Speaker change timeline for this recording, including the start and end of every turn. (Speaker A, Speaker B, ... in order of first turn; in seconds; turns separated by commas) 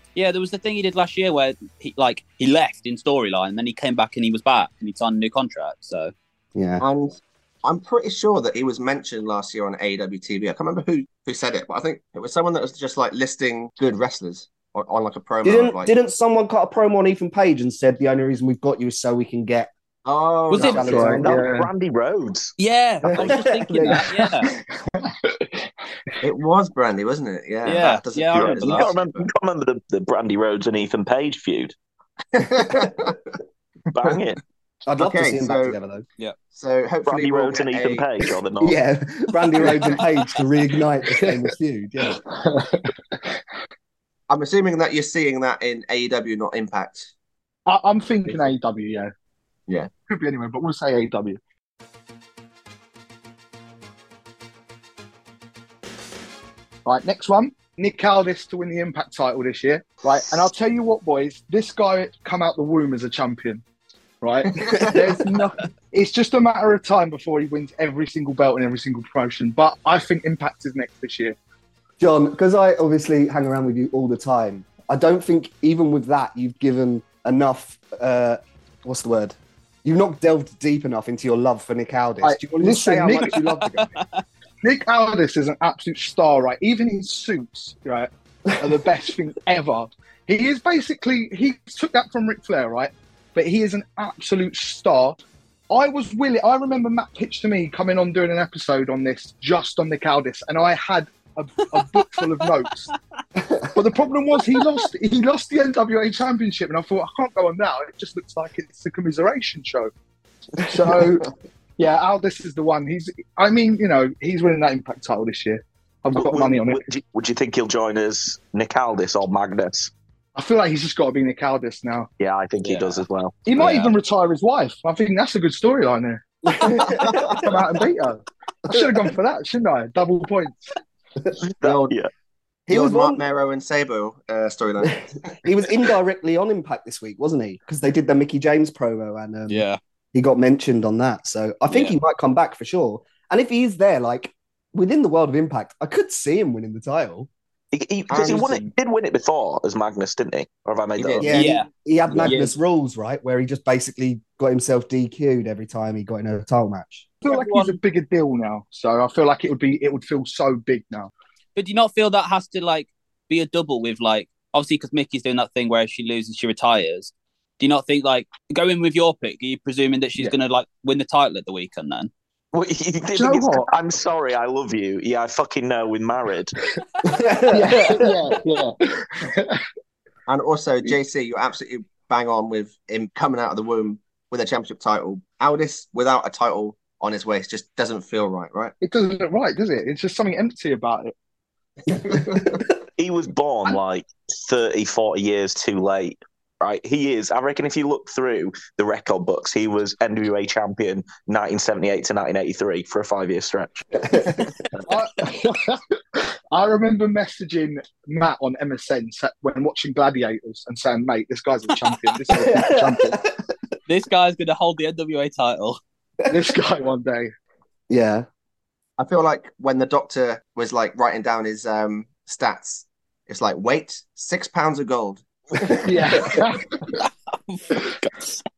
Speaker A: 0.1-6.1, Speaker B: 6.5-6.8, Speaker C: 6.8-15.9, Speaker B: 15.4-19.7, Speaker C: 20.1-21.3, Speaker A: 20.5-20.9, Speaker B: 20.5-21.4, Speaker D: 20.8-21.7, Speaker E: 20.9-22.5, Speaker A: 22.6-24.4, Speaker B: 23.0-24.1, Speaker D: 24.4-25.7, Speaker C: 26.2-29.3, Speaker A: 27.6-28.9, Speaker E: 28.3-31.7, Speaker C: 32.3-33.3, Speaker E: 33.9-34.4, Speaker B: 34.9-36.0, Speaker C: 35.0-35.8, Speaker C: 36.5-38.1, Speaker E: 37.0-38.8, Speaker B: 38.6-42.2, Speaker D: 42.1-43.4, Speaker C: 44.3-47.1, Speaker D: 47.6-49.1, Speaker D: 50.1-51.4, Speaker D: 56.9-63.6, Speaker D: 64.2-71.4, Speaker C: 64.6-65.0, Speaker B: 72.0-83.9, Speaker D: 82.2-83.4, Speaker A: 83.5-84.2, Speaker D: 84.6-102.9, Speaker B: 103.3-103.7, Speaker D: 103.7-109.9, Speaker D: 110.6-116.8, Speaker E: 116.1-119.9, Speaker D: 120.3-122.1, Speaker E: 122.2-123.9, Speaker A: 122.6-123.0, Speaker D: 123.5-130.6, Speaker B: 126.6-127.1, Speaker C: 127.0-127.6, Speaker E: 131.6-132.1, Speaker C: 131.6-131.9, Speaker B: 132.7-133.2, Speaker C: 132.7-135.3, Speaker B: 135.4-147.3, Speaker A: 139.5-139.8, Speaker A: 141.7-142.0, Speaker E: 147.7-151.3, Speaker C: 148.1-148.7, Speaker C: 151.0-151.2, Speaker B: 151.2-157.1, Speaker A: 151.3-151.7, Speaker A: 152.2-152.6, Speaker D: 157.2-161.1, Speaker A: 157.2-157.8, Speaker A: 161.6-172.1, Speaker E: 172.5-176.5, Speaker D: 173.2-173.7, Speaker B: 177.0-178.0, Speaker D: 177.5-179.6, Speaker C: 180.3-188.7, Speaker D: 188.8-191.1, Speaker C: 191.9-192.6, Speaker E: 193.0-204.0, Speaker B: 204.1-204.5, Speaker D: 204.9-213.2, Speaker B: 212.3-213.3, Speaker A: 213.9-215.8, Speaker D: 216.3-217.3, Speaker B: 217.9-218.2, Speaker C: 219.0-226.3, Speaker D: 225.8-226.7, Speaker A: 227.0-228.1